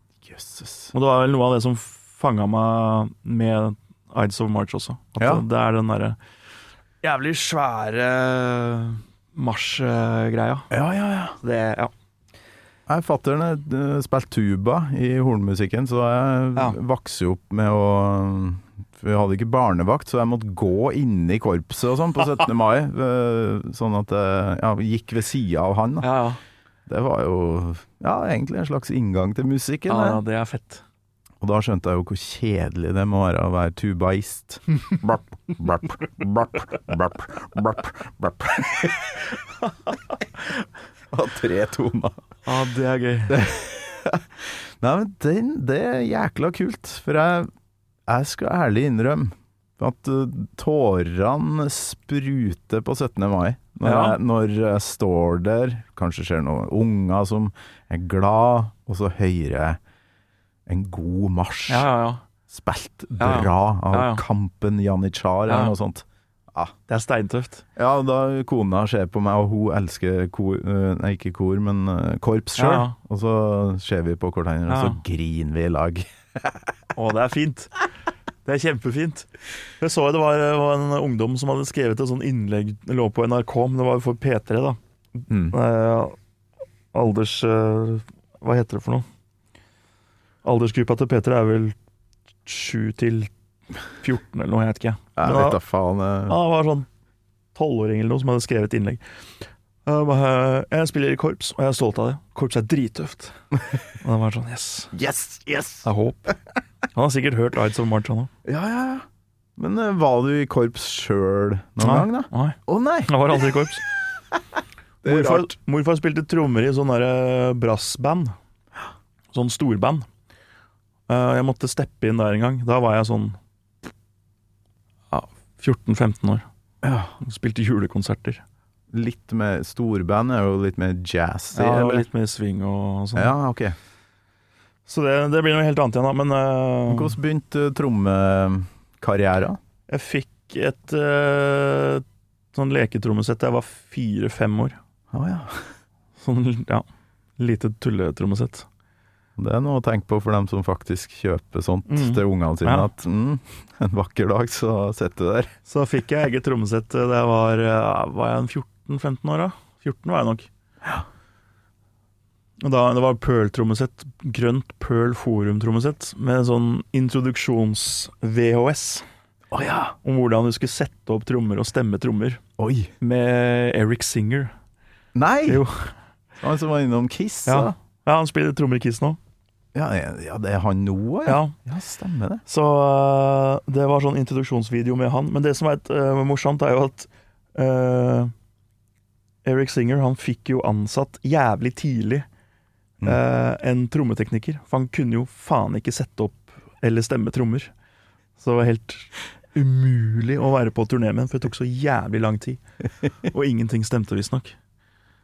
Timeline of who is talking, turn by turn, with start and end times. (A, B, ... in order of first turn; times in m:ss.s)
0:00.2-0:00.9 A
0:00.9-0:06.2 B
0:05.2-0:05.4 A
0:07.0-0:10.7 B
0:10.7-0:11.4 A
0:11.4-0:11.9 B
0:12.9-0:26.2 A
0:26.0-0:26.4 B
0:26.9-0:30.2 A
0:29.9-0:30.8 B
0:31.4-0:39.2 A
0:41.1-0:42.2 A
0:42.4-0:43.4 B
0:43.3-0:47.5 A
0:48.1-0:59.8 A
0:53.8-0:54.2 B
1:00.7-1:01.9 A
1:01.7-1:02.2 B
1:02.5-1:06.7 A
1:03.2-1:04.2 B
1:05.5-1:05.7 B
1:06.9-1:07.6 B
1:07.8-1:16.7 A
1:12.6-1:13.0 B
1:14.7-1:15.0 B
1:17.0-1:17.7 B
1:18.4-1:19.3 B
1:19.8-1:26.2 B
1:25.3-1:25.6 A
1:26.9-1:29.0 B
1:30.4-1:31.7 B
1:32.4-1:33.3 B
1:34.0-1:35.6 B
1:35.2-1:36.4 A
1:36.3-1:36.9 B
1:37.5-1:39.0 B
1:39.8-1:43.4 B
1:43.9-1:44.9 B
1:44.9-1:45.9 A
1:45.8-1:46.4 B
1:46.9-1:48.3 B
1:48.4-1:49.0 A
1:49.6-1:53.7 A
1:51.8-1:53.8 B
1:55.0-1:55.5 A
1:55.0-1:58.3 B
1:59.3-2:00.0 B
2:01.1-2:03.4 B
2:05.1-2:06.4 B
2:06.8-2:07.1 A
2:07.2-2:08.4 B
2:08.9-2:12.0 A
2:11.5-2:13.3 B
2:13.1-2:13.8 A
2:14.9-2:17.1 B
2:16.9-2:19.6 A
2:19.9-2:24.8 B
2:25.1-2:25.7 A
2:26.2-2:26.8 B
2:27.4-2:28.7 B
2:29.4-2:35.5 A
2:31.9-2:32.9 B
2:35.6-2:40.5 B
2:42.6-2:49.0 B
2:49.5-2:49.9 A
2:50.0-2:52.4 B
2:52.6-2:52.9 A
2:53.0-2:54.5 B
2:55.1-2:55.6 A
2:55.5-2:55.9 B
2:56.4-2:57.7 A
2:57.4-2:59.2 B
2:59.7-3:02.4 A
3:01.2-3:01.5 B
3:02.5-3:08.3 B
3:09.4-3:12.2 B
3:13.0-3:17.7 B
3:18.4-3:22.6 B
3:23.2-3:24.5 B